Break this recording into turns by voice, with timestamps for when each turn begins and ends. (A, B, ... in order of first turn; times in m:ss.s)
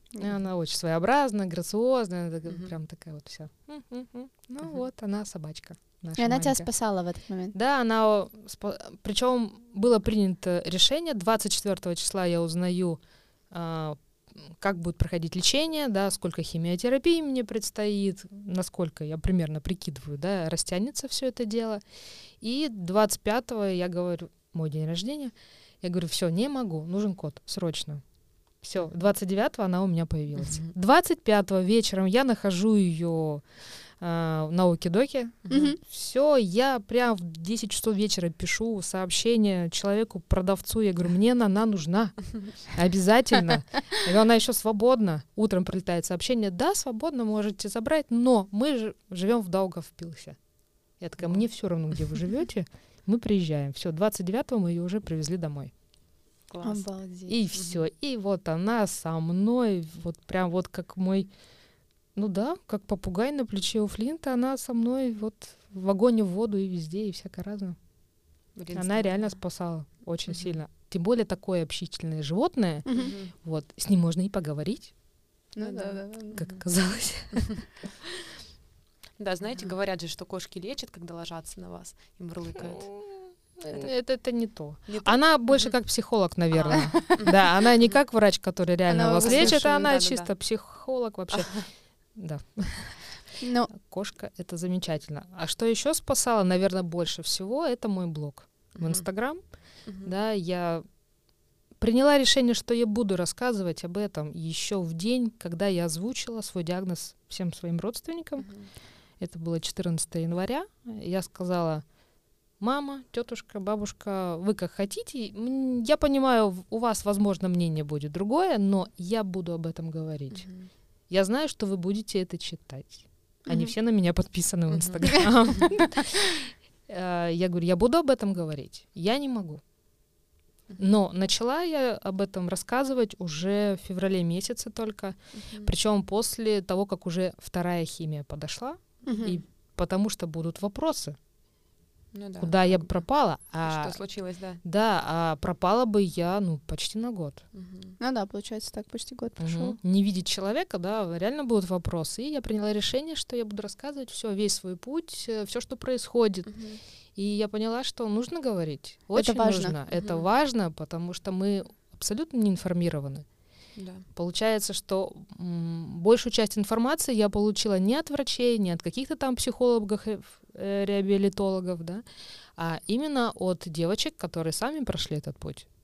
0:00.2-0:06.7 A
0:06.2-0:07.5 B
0:07.5-0:13.0 A
0:13.5-0:21.8 A
0:22.4-0:28.0 A
0:28.6-0:33.4 A
0:30.4-0:30.7 C
0:34.0-0:50.4 A
0:35.5-0:35.7 C
0:35.5-0:35.8 B
0:51.0-0:55.7 A
0:56.5-0:56.8 C
0:56.6-0:57.3 B
0:57.3-1:01.3 A
0:57.5-0:57.8 C
1:02.1-1:07.8 A
1:08.5-1:09.4 C
1:08.7-1:14.9 A
1:10.3-1:10.5 C
1:12.8-1:13.1 B
1:12.9-1:13.3 C
1:15.5-1:16.4 B
1:15.6-1:17.5 C
1:16.3-1:17.6 A
1:19.2-1:23.0 C
1:22.6-1:33.1 A
1:24.8-1:25.8 C
1:26.5-1:27.9 C
1:28.9-1:29.6 B
1:29.2-1:30.3 C
1:31.3-1:31.6 C
1:33.4-1:33.7 B
1:33.7-1:40.8 A
1:38.7-1:39.1 C
1:39.8-1:40.1 C
1:41.8-1:48.5 A
1:48.4-1:48.7 C
1:49.2-1:51.8 A
1:52.6-2:00.5 A
2:00.3-2:00.7 C
2:01.1-2:09.6 A
2:04.7-2:05.7 C
2:10.8-2:21.2 A
2:15.4-2:15.7 C
2:19.0-2:19.4 B
2:22.1-2:24.6 C
2:22.4-2:24.0 A
2:24.6-2:27.4 A
2:27.5-2:28.0 C
2:28.0-2:29.8 B
2:29.4-2:36.6 A
2:36.4-2:36.8 C
2:37.2-2:43.2 A
2:39.1-2:39.8 B
2:40.0-2:40.3 C
2:43.8-2:44.0 C
2:44.1-2:52.0 A
2:52.6-2:55.7 A